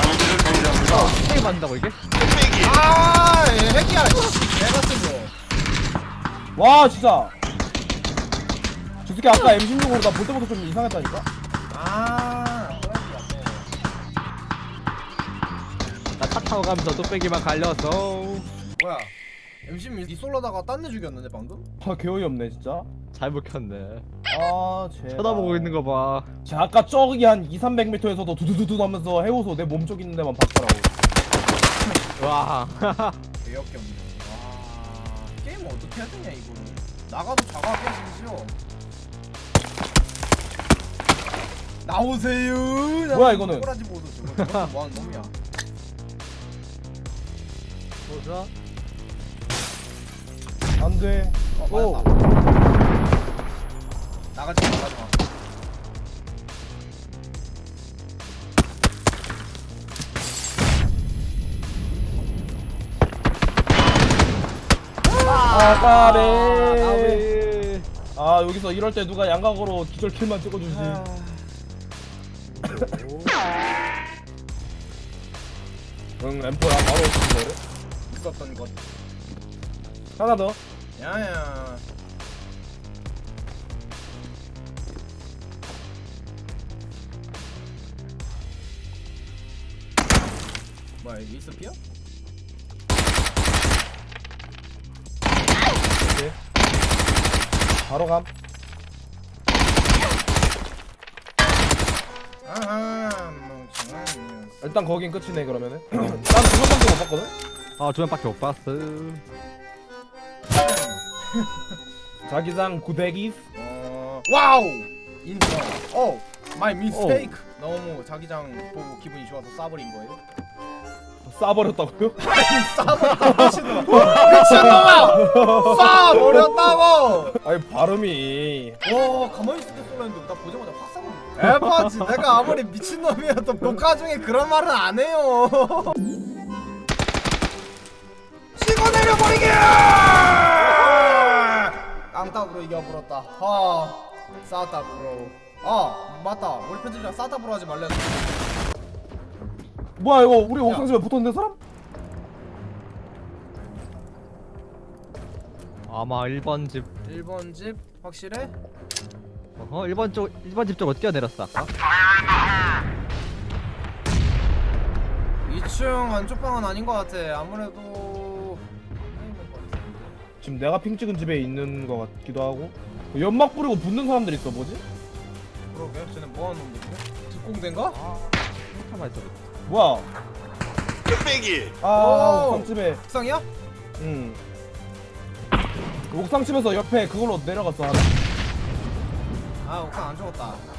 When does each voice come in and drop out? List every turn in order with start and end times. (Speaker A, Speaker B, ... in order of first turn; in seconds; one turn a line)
Speaker A: 0.2-2.0
Speaker B: 2.5-5.3
Speaker C: 6.6-7.3
Speaker C: 9.1-11.3
Speaker B: 11.7-13.7
Speaker A: 16.2-18.5
Speaker B: 18.8-19.1
Speaker B: 19.6-21.6
Speaker C: 21.8-22.9
Speaker A: 23.1-24.1
Speaker C: 24.3-25.8
Speaker A: 25.1-26.3
Speaker C: 26.4-31.0
Speaker A: 32.2-33.2
Speaker B: 33.4-38.6
Speaker B: 41.8-45.3
Speaker C: 43.1-43.7
Speaker A: 44.3-44.7
Speaker A: 48.1-48.5
Speaker C: 50.8-51.4
Speaker B: 51.6-52.1
Speaker A: 51.7-52.1
Speaker B: 54.3-55.2
Speaker B: 65.0-65.5
Speaker A: 65.2-67.9
Speaker C: 65.5-67.3
Speaker C: 68.2-71.0
Speaker B: 70.7-71.5
Speaker A: 72.7-73.4
Speaker C: 76.2-77.6
Speaker B: 78.1-78.8
Speaker C: 80.2-80.6
Speaker B: 81.0-81.8
Speaker B: 91.0-91.8
Speaker C: 96.0-96.4
Speaker C: 97.9-98.3
Speaker B: 102.5-104.6
Speaker C: 104.6-107.3
Speaker A: 107.8-109.2
Speaker B: 110.5-111.8
Speaker C: 112.3-113.4
Speaker B: 113.5-120.2
Speaker A: 116.9-117.4
Speaker C: 121.2-122.2
Speaker B: 122.2-127.4
Speaker C: 123.2-126.8
Speaker C: 127.4-128.8
Speaker B: 128.8-136.0
Speaker B: 138.6-148.4
Speaker C: 150.0-151.6
Speaker B: 150.6-150.9
Speaker A: 155.9-156.9
Speaker B: 157.0-158.5
Speaker A: 159.6-161.7
Speaker B: 165.5-170.2
Speaker C: 170.4-174.8
Speaker B: 175.7-178.0
Speaker A: 177.9-179.4
Speaker C: 179.7-180.1
Speaker C: 181.8-183.0
Speaker B: 181.9-183.5
Speaker C: 184.0-184.4
Speaker C: 186.1-188.1
Speaker B: 189.6-190.7